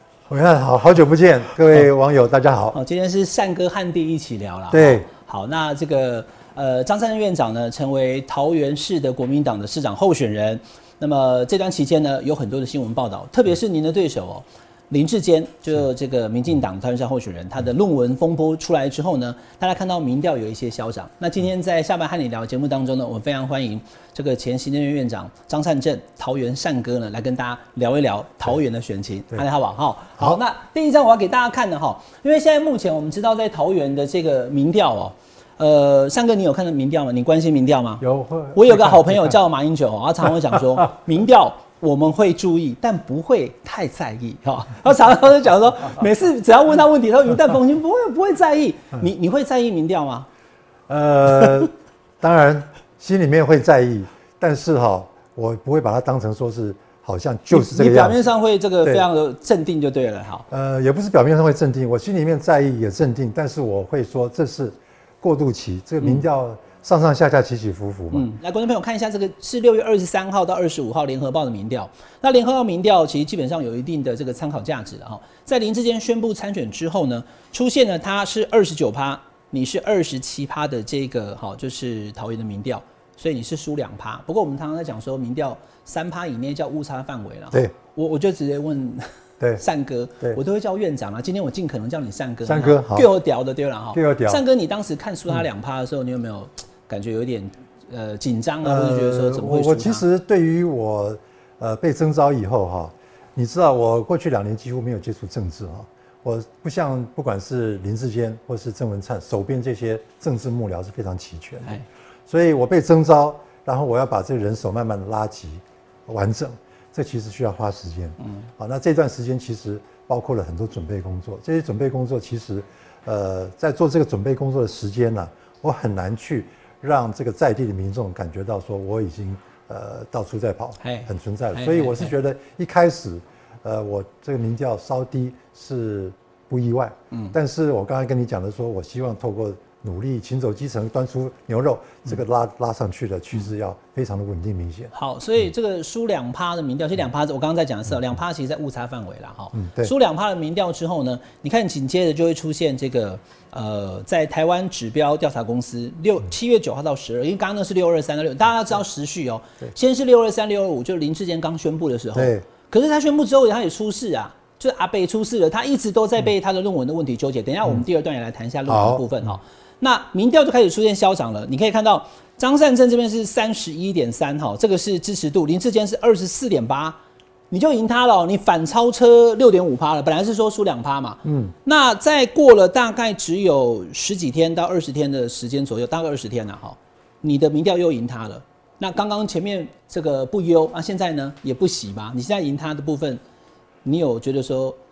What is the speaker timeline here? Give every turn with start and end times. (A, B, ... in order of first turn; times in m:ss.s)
0:00.3-0:02.8 A
0:02.7-0:50.3 B
0:04.7-0:05.0 A
0:38.0-0:39.3 A
0:50.9-0:58.2 A
0:57.5-1:00.4 B
1:00.5-1:08.3 A
1:08.1-1:29.1 B
1:29.6-1:40.0 B
1:32.4-1:33.1 A
1:33.9-1:34.4 A
1:38.6-2:24.9 A
2:10.8-2:12.1 B
2:24.9-2:57.0 B
2:29.5-2:29.9 A
2:42.1-2:42.4 A
2:48.7-2:49.0 A
2:57.5-3:13.2 B
3:01.2-3:01.5 A
3:13.8-3:14.8 B